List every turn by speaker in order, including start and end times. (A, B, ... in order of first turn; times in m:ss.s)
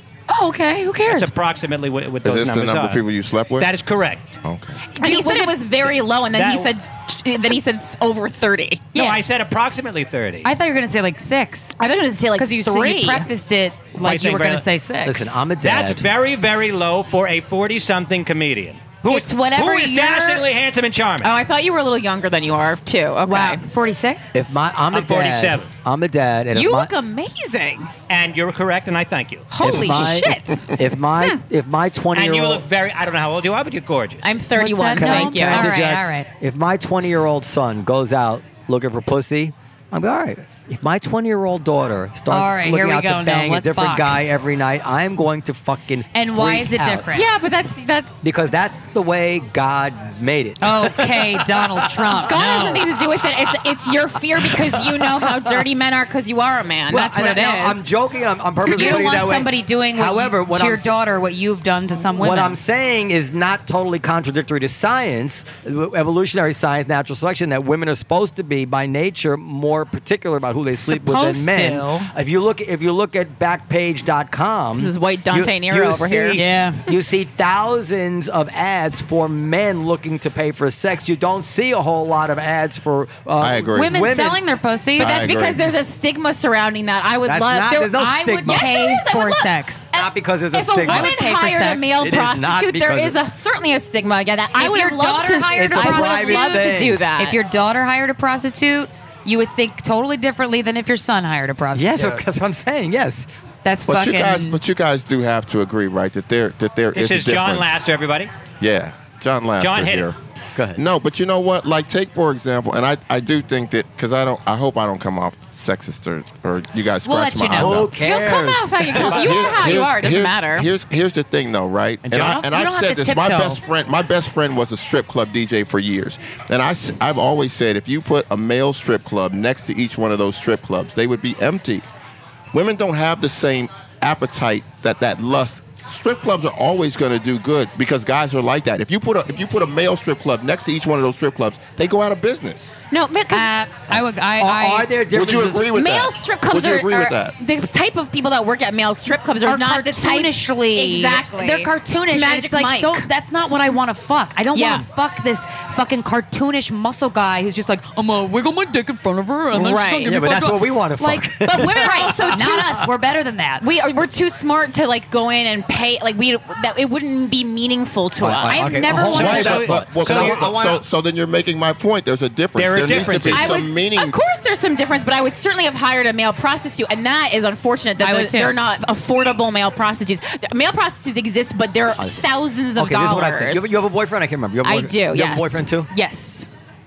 0:00.3-0:01.3 A
0:01.1-0:03.0 B
0:02.2-0:03.7 C
0:03.6-0:04.4 B
0:04.4-0:04.8 C
0:04.9-0:05.6 D
0:05.0-0:08.9 A
0:06.3-0:06.7 B
0:08.9-0:09.2 D
0:08.9-0:10.5 B
0:10.4-0:11.7 D
0:11.8-0:13.3 A
0:12.4-0:15.4 D
0:14.0-0:14.6 B
0:15.0-0:16.0 E
0:15.6-0:21.4 B
0:19.0-0:20.4 D
0:21.2-0:23.6 A
0:23.2-0:24.3 D
0:24.3-0:26.9 E
0:24.9-0:25.7 B
0:26.5-0:27.9 A
0:28.1-0:29.5 B
0:29.5-0:31.4 A
0:29.6-0:32.6 E
0:32.1-0:34.3 B
0:34.2-0:35.7 A
0:34.5-0:36.3 D
0:34.9-0:47.1 E
0:42.3-0:44.3 D
0:46.1-0:47.2 D
0:47.1-0:48.2 A
0:48.2-0:52.3 E
0:50.6-0:52.8 D
0:52.2-0:57.9 A
0:54.4-0:55.6 E
0:56.9-1:00.9 E
0:58.7-1:02.6 D
1:02.2-1:24.4 E
1:10.8-1:12.1 D
1:14.7-1:16.4 A
1:16.3-1:16.8 D
1:23.4-1:23.9 C
1:23.7-1:25.4 D
1:25.0-1:25.7 C
1:25.0-1:37.4 A
1:27.2-1:28.7 E
1:28.0-1:29.9 D
1:29.9-1:31.1 E
1:30.8-1:31.9 D
1:32.0-1:33.2 E
1:34.5-1:42.2 D
1:35.5-1:37.0 E
1:41.7-1:43.3 E
1:43.6-1:44.6 D
1:43.9-1:47.8 C
1:46.9-1:48.3 B
1:48.6-1:50.2 C
1:49.6-1:50.1 B
1:50.5-1:50.8 E
1:50.7-1:58.0 C
1:57.0-1:57.8 D
1:57.5-1:59.4 E
1:58.0-2:00.7 A
1:58.9-2:11.8 C
2:02.0-2:02.4 B
2:02.1-2:03.6 D
2:12.5-2:22.7 C
2:22.9-2:23.5 A
2:23.3-2:24.9 D
2:23.9-2:25.7 E
2:25.1-2:27.3 C
2:25.7-2:33.1 A
2:29.4-2:43.6 D
2:34.5-2:34.8 A
2:39.5-2:40.2 A
2:40.0-2:42.6 E
2:41.5-2:42.9 A
2:43.6-2:49.0 A
2:48.2-2:50.8 E
2:48.5-2:49.6 D
2:49.1-2:54.2 C
2:49.1-2:50.6 B
2:52.5-2:53.6 B
2:53.2-3:03.7 A
2:58.0-2:58.6 D
3:02.0-3:02.2 E
3:02.7-3:05.9 E
3:04.6-3:05.6 A
3:05.9-3:06.5 D